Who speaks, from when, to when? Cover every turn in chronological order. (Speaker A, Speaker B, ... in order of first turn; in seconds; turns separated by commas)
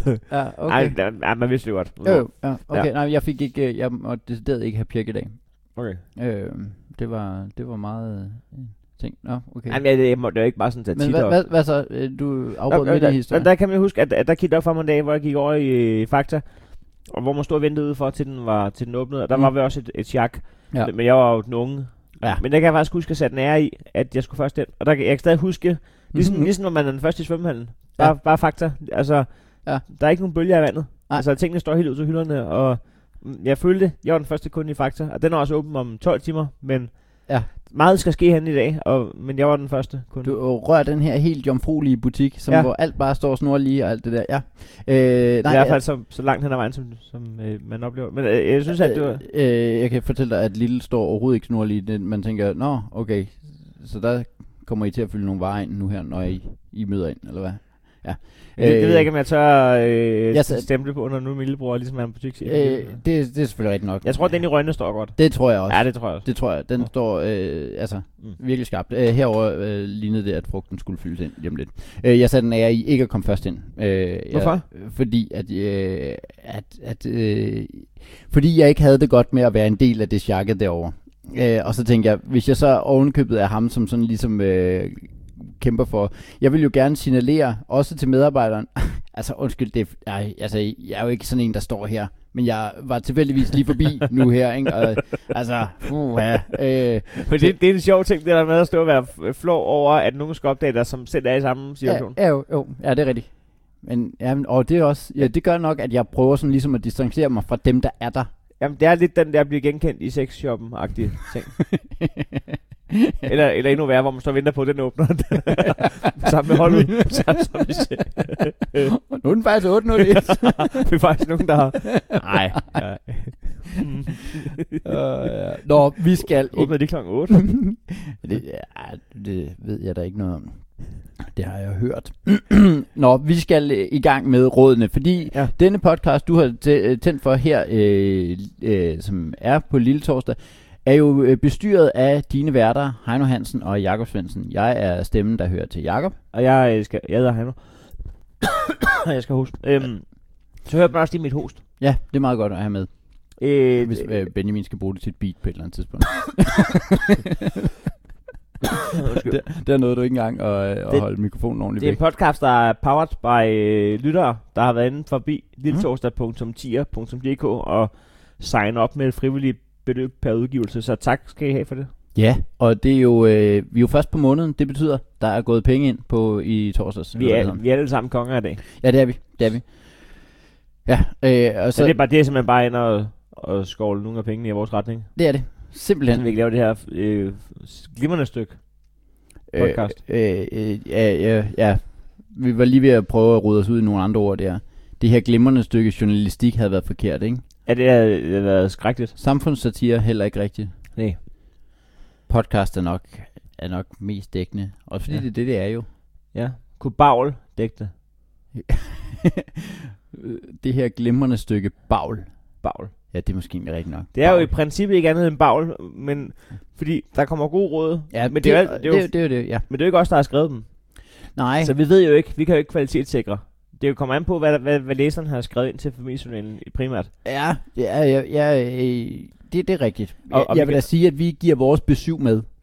Speaker A: 0.2-1.1, Speaker B: 0.7-2.9, Speaker A: 2.0-9.8, Speaker B: 5.8-6.0, Speaker B: 9.7-11.4, Speaker A: 10.9-13.5, Speaker B: 12.7-40.4, Speaker A: 26.1-26.5, Speaker A: 40.2-45.8, Speaker B: 45.5-49.2, Speaker A: 48.7-59.1, Speaker B: 58.6-63.0, Speaker A: 60.3-60.7, Speaker A: 62.4-97.6, Speaker B: 64.0-66.9, Speaker B: 74.3-74.7, Speaker B: 97.1-102.2, Speaker A: 101.8-108.3, Speaker B: 108.6-111.6, Speaker A: 111.7-113.3, Speaker B: 113.2-118.9, Speaker A: 116.7-117.2, Speaker A: 119.0-120.8, Speaker B: 119.9-124.8, Speaker A: 122.0-122.8, Speaker A: 124.8-146.2, Speaker B: 126.5-127.5, Speaker B: 146.3-148.2, Speaker B: 149.0-151.6, Speaker A: 151.8-157.3, Speaker B: 153.4-154.1, Speaker B: 158.9-159.3, Speaker A: 159.2-162.0, Speaker B: 160.9-171.9, Speaker A: 172.2-177.7, Speaker B: 177.1-178.6, Speaker A: 178.8-180.2, Speaker A: 180.8-182.0, Speaker B: 181.7-185.2, Speaker A: 185.2-186.3, Speaker B: 185.7-190.0, Speaker A: 189.5-197.4, Speaker B: 197.7-199.2, Speaker A: 199.2-200.7, Speaker A: 202.3-205.9, Speaker B: 206.3-207.9, Speaker A: 208.7-212.5, Speaker B: 212.6-212.9, Speaker A: 213.1-214.5, Speaker B: 214.1-227.1, Speaker A: 218.1-219.7, Speaker A: 221.3-221.7, Speaker A: 227.2-232.4, Speaker B: 230.3-230.9